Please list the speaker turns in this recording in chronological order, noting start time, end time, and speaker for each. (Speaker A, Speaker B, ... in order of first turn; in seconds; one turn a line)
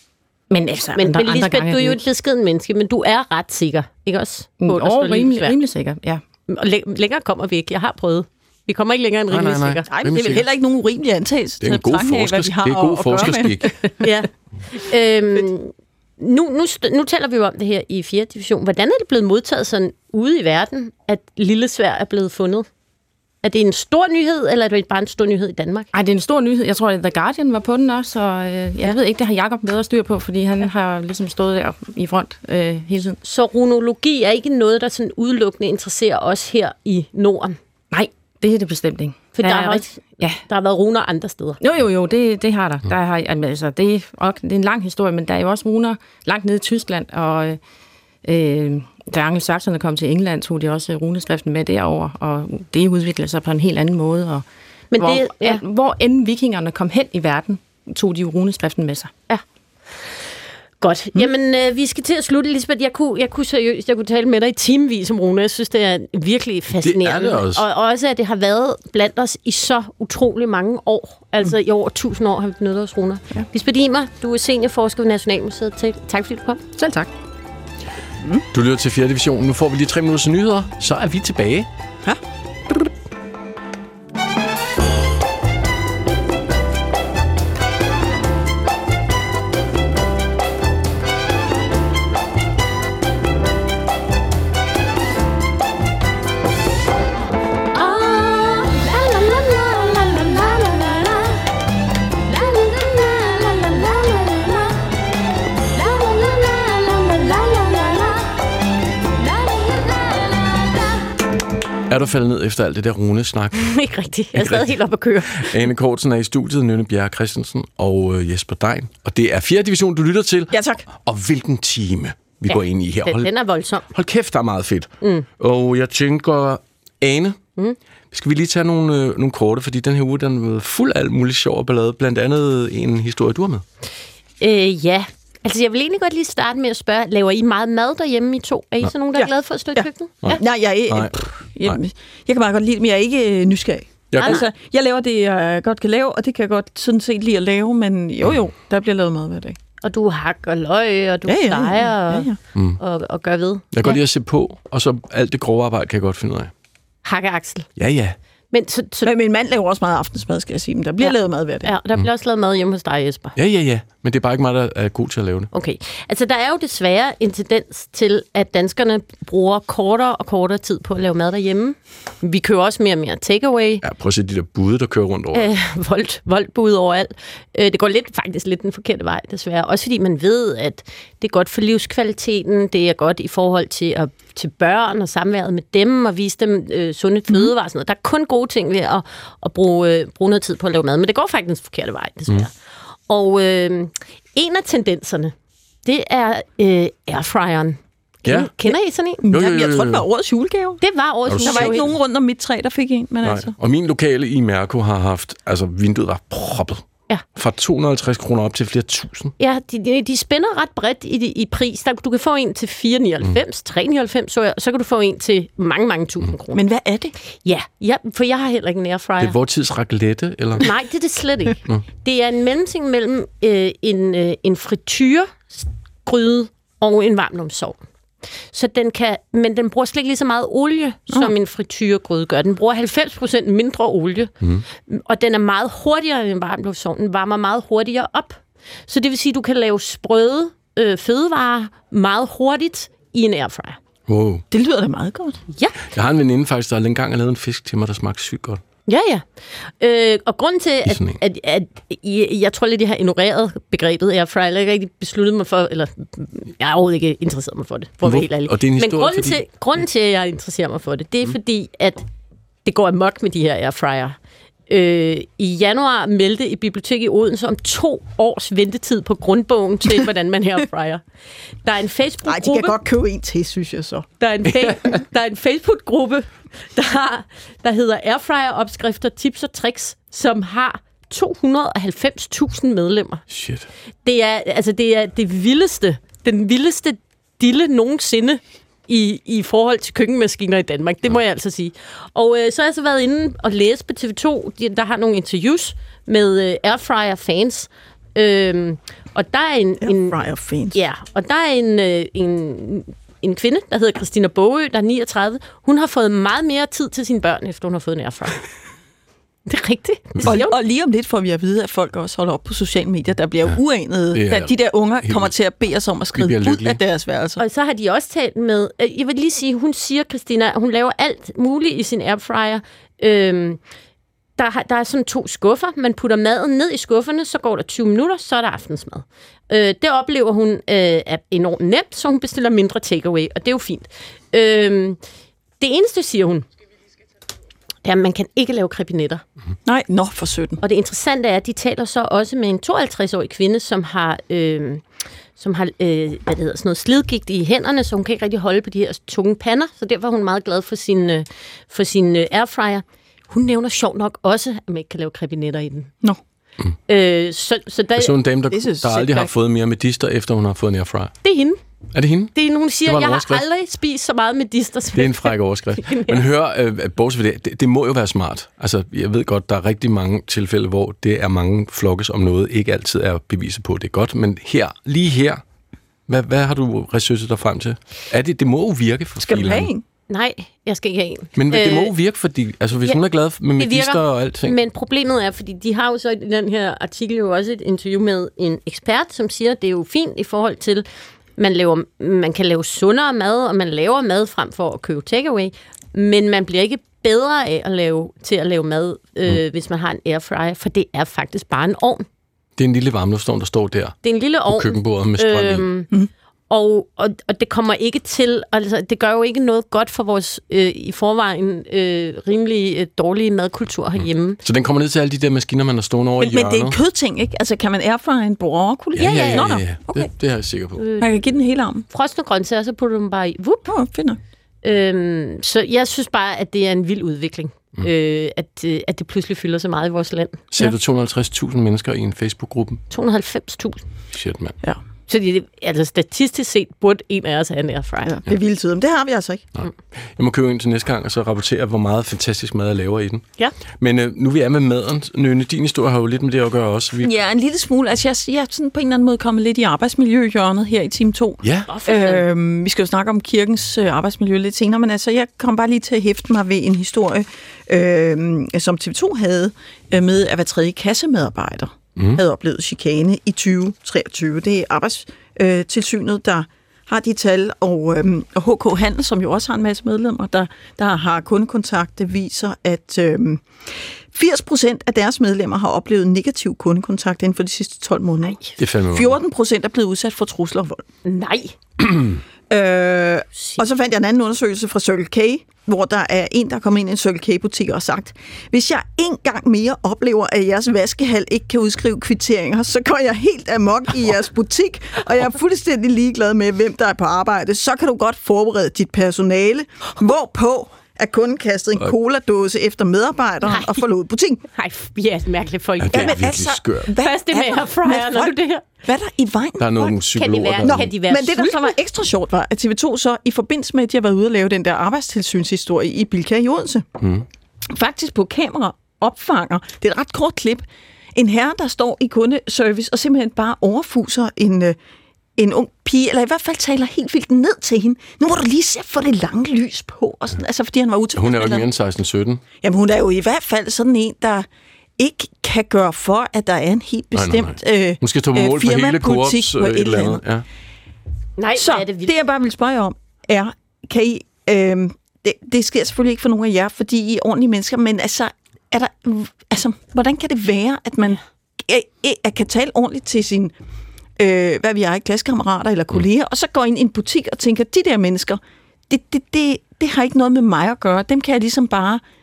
Speaker A: 0.5-2.0
Speaker B: 0.9-5.6
Speaker A: 4.6-6.2
Speaker B: 6.5-9.8
Speaker C: 9.3-10.5
Speaker D: 9.9-13.7
Speaker C: 11.6-13.8
Speaker B: 14.0-22.7
Speaker B: 23.4-25.9
Speaker A: 25.9-33.2
Speaker B: 33.2-37.6
Speaker A: 37.9-40.4
Speaker B: 39.4-41.6
Speaker A: 41.6-47.6
Speaker A: 48.2-54.5
Speaker B: 54.9-55.6
Speaker A: 55.0-59.1
Speaker B: 60.8-76.6
Speaker C: 66.8-67.6
Speaker A: 76.8-77.1
Speaker C: 78.5-81.7
Speaker B: 97.7-101.4
Speaker B: 102.3-104.8
Speaker B: 105.8-108.3
Speaker B: 109.4-110.2
Speaker C: 111.9-113.8
Speaker B: 113.6-115.6
Speaker C: 114.3-114.7
Speaker C: 115.3-123.3
Speaker D: 120.5-120.8
Speaker B: 122.5-123.9
Speaker C: 123.9-127.4
Speaker B: 125.0-125.3
Speaker C: 128.1-133.6
Speaker B: 134.4-140.4
Speaker D: 139.1-149.6
Speaker C: 140.2-141.8
Speaker C: 144.1-144.4
Speaker B: 149.8-154.0
Speaker D: 151.3-152.4
Speaker C: 152.5-152.8
Speaker C: 153.7-156.5
Speaker B: 157.1-157.7
Speaker C: 157.8-158.2
Speaker B: 158.5-159.1
Speaker D: 159.0-161.7
Speaker B: 161.0-163.3
Speaker C: 163.3-165.5
Speaker B: 165.5-173.8
Speaker C: 173.8-175.5
Speaker B: 175.3-192.5
Speaker B: 193.1-195.3
Speaker B: 195.8-199.2
Speaker C: 198.2-198.5
Speaker D: 199.3-200.8
Speaker C: 199.3-200.1
Speaker B: 200.8-201.9
Speaker C: 201.3-201.9
Speaker D: 201.4-203.5
Speaker C: 203.2-209.3
Speaker B: 209.4-216.6
Speaker D: 216.5-217.2
Speaker B: 217.2-219.4
Speaker C: 219.2-220.7
Speaker B: 220.6-227.8
Speaker B: 228.5-234.3
Speaker B: 234.9-243.8
Speaker C: 244.1-244.4
Speaker D: 244.5-245.4
Speaker B: 245.5-245.8
Speaker C: 245.9-248.6
Speaker B: 248.9-262.1
Speaker C: 250.9-251.2
Speaker C: 258.0-259.4
Speaker B: 262.6-264.2
Speaker B: 264.7-271.0
Speaker B: 271.6-272.7
Speaker D: 272.3-274.1
Speaker B: 274.2-283.2
Speaker C: 283.3-283.7
Speaker B: 284.1-300.2
Speaker D: 299.8-300.8
Speaker B: 300.7-308.4
Speaker B: 309.5-310.6
Speaker D: 310.2-317.4
Speaker C: 314.1-315.3
Speaker C: 316.2-316.8
Speaker B: 317.4-323.6
Speaker B: 324.4-335.0
Speaker B: 335.6-336.5
Speaker B: 337.8-339.2
Speaker D: 339.6-340.6
Speaker B: 340.6-344.8
Speaker B: 345.4-355.9
Speaker B: 356.9-358.1
Speaker C: 358.0-361.2
Speaker D: 358.5-359.3
Speaker B: 361.2-361.6
Speaker C: 361.9-363.4
Speaker B: 362.4-366.3
Speaker C: 364.9-375.4
Speaker C: 376.1-379.7
Speaker D: 379.2-379.8
Speaker B: 380.1-381.9
Speaker C: 381.4-384.6
Speaker B: 383.6-390.9
Speaker B: 391.4-402.1
Speaker C: 402.6-405.7
Speaker B: 404.0-405.9
Speaker B: 406.5-414.4
Speaker C: 414.0-416.8
Speaker D: 416.2-420.1
Speaker B: 418.9-419.5
Speaker C: 419.0-420.9
Speaker B: 420.8-421.1
Speaker D: 421.0-421.9
Speaker B: 421.9-423.7
Speaker D: 423.7-424.2
Speaker B: 424.6-430.5
Speaker C: 430.5-432.8
Speaker B: 432.9-433.8
Speaker C: 434.1-434.6
Speaker B: 435.1-438.2
Speaker D: 438.1-439.5
Speaker C: 439.6-443.3
Speaker C: 443.8-447.1
Speaker D: 447.0-480.8
Speaker C: 451.4-451.7
Speaker B: 451.7-452.2
Speaker C: 462.0-462.2
Speaker C: 478.6-479.2
Speaker B: 481.1-481.6
Speaker C: 481.9-482.2
Speaker D: 482.5-504.4
Speaker B: 483.4-483.6
Speaker B: 503.4-503.8
Speaker B: 504.5-506.2
Speaker C: 505.8-506.9
Speaker D: 505.9-509.9
Speaker B: 506.9-508.6
Speaker C: 509.6-510.9
Speaker B: 509.8-511.7
Speaker D: 510.6-516.9
Speaker C: 517.0-517.3
Speaker D: 517.7-524.8
Speaker D: 525.4-531.7
Speaker C: 531.2-532.4
Speaker D: 532.6-534.5
Speaker D: 535.0-540.2
Speaker C: 537.1-540.5
Speaker B: 541.4-542.1
Speaker D: 541.5-553.5
Speaker D: 554.2-562.0